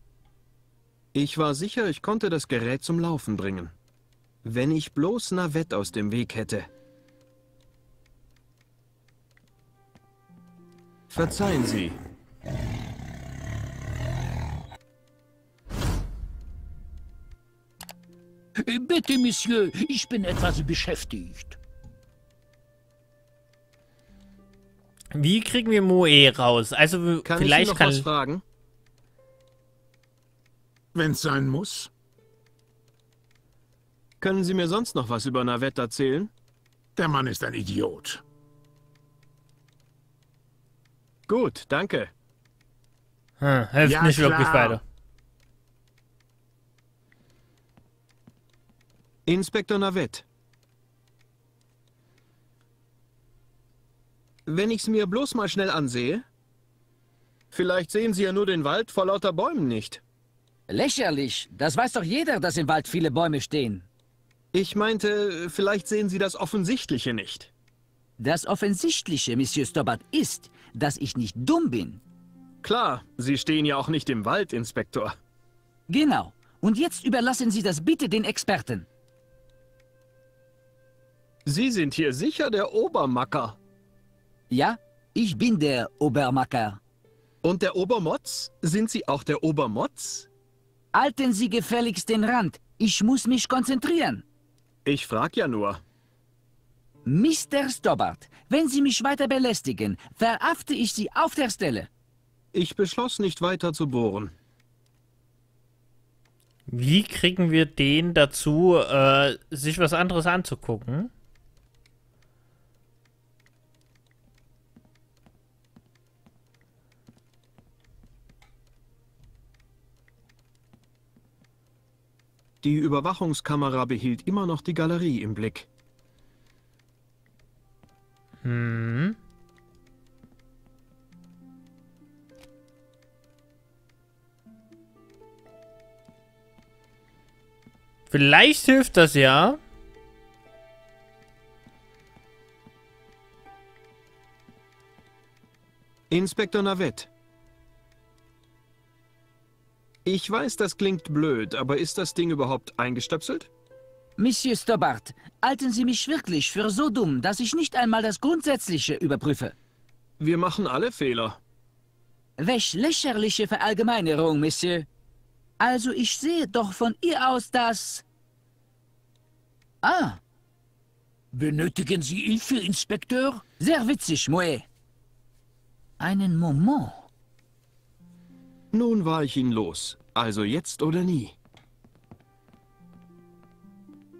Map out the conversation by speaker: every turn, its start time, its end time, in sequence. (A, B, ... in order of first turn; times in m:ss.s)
0:01.1-0:03.8 A
0:04.4-0:06.7 A
0:11.1-0:12.0 A
0:18.6-0:21.6 B
0:25.1-0:28.1 C
0:27.2-0:28.4 A
0:30.9-0:31.9 D
0:34.2-0:36.3 A
0:37.0-0:38.2 D
0:41.3-0:42.1 A
0:43.4-0:44.8 C
0:43.8-0:44.8 D
0:49.3-0:50.3 A
0:54.5-0:56.2 A
0:57.5-1:00.0 A
1:00.7-1:03.9 E
1:04.5-1:07.5 A
1:08.2-1:12.0 E
1:12.6-1:15.2 A
1:15.9-1:18.9 E
1:21.5-1:23.6 A
1:24.5-1:26.8 E
1:27.4-1:30.3 A
1:30.9-1:34.2 E
1:34.8-1:35.8 A
1:37.0-1:41.9 E
1:42.5-1:44.4 A
1:46.7-1:51.1 C
2:02.6-2:05.7 A
2:08.4-2:09.2 C
2:18.1-2:19.6 C
2:26.1-2:27.1 A
2:30.0-2:33.5 A
2:34.2-2:39.6 E
2:40.2-2:41.4 A
2:42.4-2:44.9 E
2:45.6-2:48.0 E
2:49.8-2:50.2 E
2:51.3-2:53.5 B
2:53.6-2:54.7 E
2:56.0-2:57.1 E
2:58.7-3:01.4 A